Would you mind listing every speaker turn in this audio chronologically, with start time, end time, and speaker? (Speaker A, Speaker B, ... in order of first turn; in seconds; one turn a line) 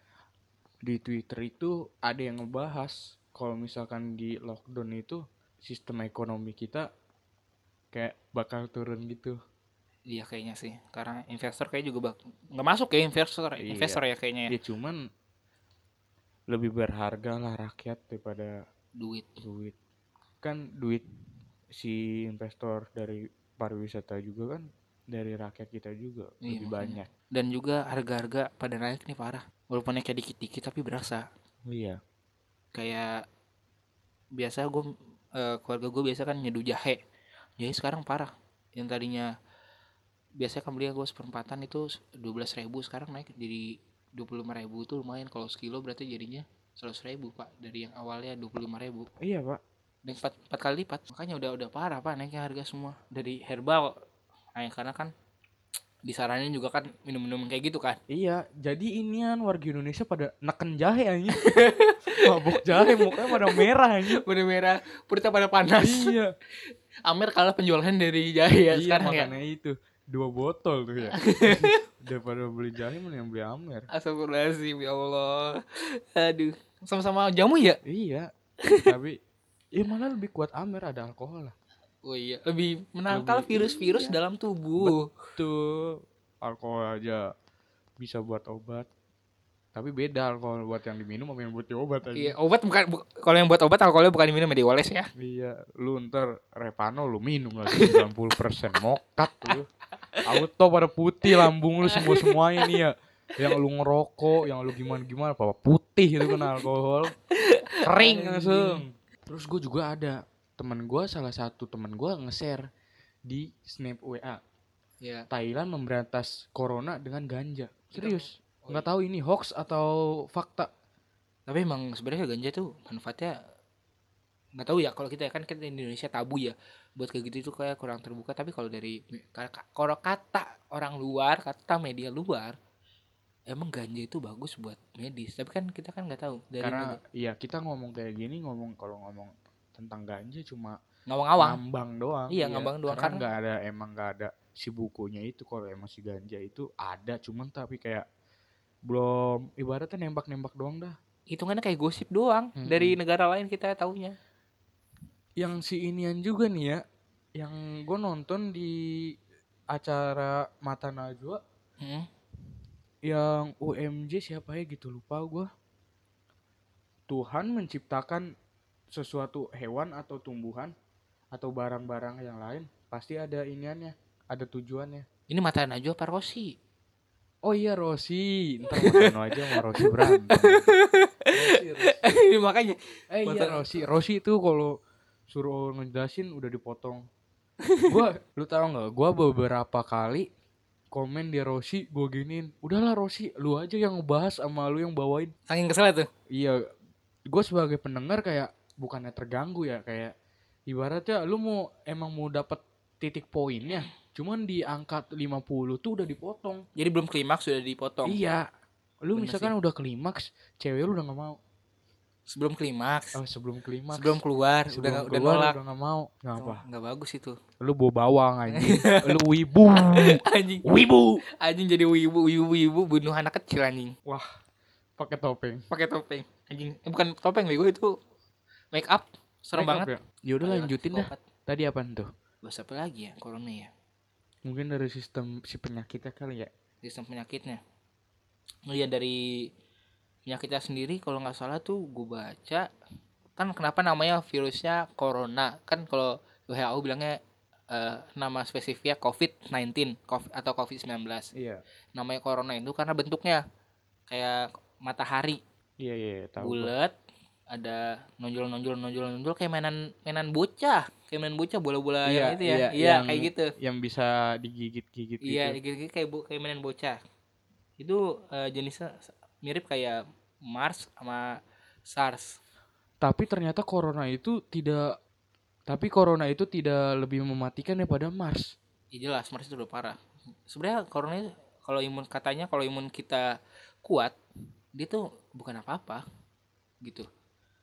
Speaker A: 0.8-6.9
Speaker A: 7.9-9.4
Speaker B: 10.1-14.5
Speaker A: 13.6-15.0
Speaker A: 16.5-18.6
Speaker B: 19.0-19.4
Speaker A: 19.4-19.8
Speaker A: 20.4-21.0
Speaker A: 21.7-27.1
Speaker B: 26.4-31.2
Speaker A: 31.7-32.0
Speaker B: 32.7-33.2
Speaker B: 34.4-37.0
Speaker B: 37.6-39.3
Speaker B: 40.4-49.1
Speaker A: 49.2-49.6
Speaker B: 50.0-54.0
Speaker B: 54.5-55.1
Speaker B: 56.0-58.0
Speaker A: 58.1-61.4
Speaker B: 61.3-66.1
Speaker A: 62.2-64.2
Speaker A: 65.8-66.3
Speaker B: 67.1-69.3
Speaker A: 68.7-73.9
Speaker B: 71.1-71.8
Speaker B: 73.9-77.8
Speaker A: 77.8-78.3
Speaker B: 78.6-78.9
Speaker A: 78.8-79.2
Speaker A: 79.8-81.5
Speaker B: 82.0-85.1
Speaker A: 83.1-84.2
Speaker A: 84.8-87.3
Speaker A: 88.0-88.9
Speaker A: 89.7-92.3
Speaker B: 92.1-95.1
Speaker A: 95.2-99.7
Speaker B: 97.7-98.0
Speaker A: 100.2-107.1
Speaker B: 101.2-102.7
Speaker B: 106.2-106.5
Speaker B: 107.3-108.8
Speaker A: 107.8-112.7
Speaker A: 113.3-114.4
Speaker A: 115.3-120.7
Speaker B: 117.9-118.9
Speaker B: 121.5-123.4
Speaker B: 124.6-132.6
Speaker B: 133.5-137.0
Speaker A: 136.6-140.8
Speaker B: 141.1-141.6
Speaker A: 141.4-148.0
Speaker B: 142.3-143.2
Speaker A: 148.9-150.9
Speaker B: 151.3-154.2
Speaker A: 152.6-152.9
Speaker A: 155.4-156.8
Speaker A: 157.4-159.0
Speaker A: 159.7-161.4
Speaker B: 161.8-162.1
Speaker A: 163.0-165.5
Speaker A: 167.1-168.3
Speaker A: 168.9-170.7
Speaker A: 171.3-175.1
Speaker B: 175.3-176.5
Speaker A: 177.4-180.7
Speaker B: 178.7-183.9
Speaker A: 181.3-182.0
Speaker A: 183.1-184.7
Speaker A: 185.3-187.0
Speaker B: 187.6-187.9
Speaker A: 187.8-190.3
Speaker A: 190.9-195.3
Speaker B: 195.5-196.1
Speaker A: 196.3-196.6
Speaker A: 197.3-200.1
Speaker A: 200.7-206.6
Speaker B: 206.8-208.2
Speaker A: 208.0-208.5
Speaker A: 209.0-211.4
Speaker B: 209.1-209.5
Speaker B: 212.3-213.2
Speaker A: 213.1-214.2
Speaker B: 213.9-215.6
Speaker A: 214.7-216.6
Speaker B: 216.4-217.4
Speaker A: 217.6-221.2
Speaker B: 218.5-219.2
Speaker B: 219.7-220.6
Speaker B: 221.4-223.9
Speaker A: 225.0-225.6
Speaker B: 225.7-227.9
Speaker B: 228.7-229.9
Speaker A: 229.6-232.1
Speaker B: 230.4-231.2
Speaker B: 232.4-233.7
Speaker A: 234.4-236.5
Speaker B: 236.8-237.6
Speaker B: 238.7-239.5
Speaker B: 240.3-242.7
Speaker B: 243.4-247.2
Speaker B: 247.7-251.3
Speaker A: 251.3-251.6
Speaker B: 251.9-253.4
Speaker B: 254.1-255.4
Speaker A: 255.8-256.7
Speaker B: 256.4-256.9
Speaker B: 257.5-263.5
Speaker A: 262.0-265.6
Speaker B: 265.2-267.0
Speaker B: 267.8-272.4
Speaker A: 273.0-274.9
Speaker A: 275.7-278.5
Speaker B: 278.9-284.2
Speaker B: 284.8-286.0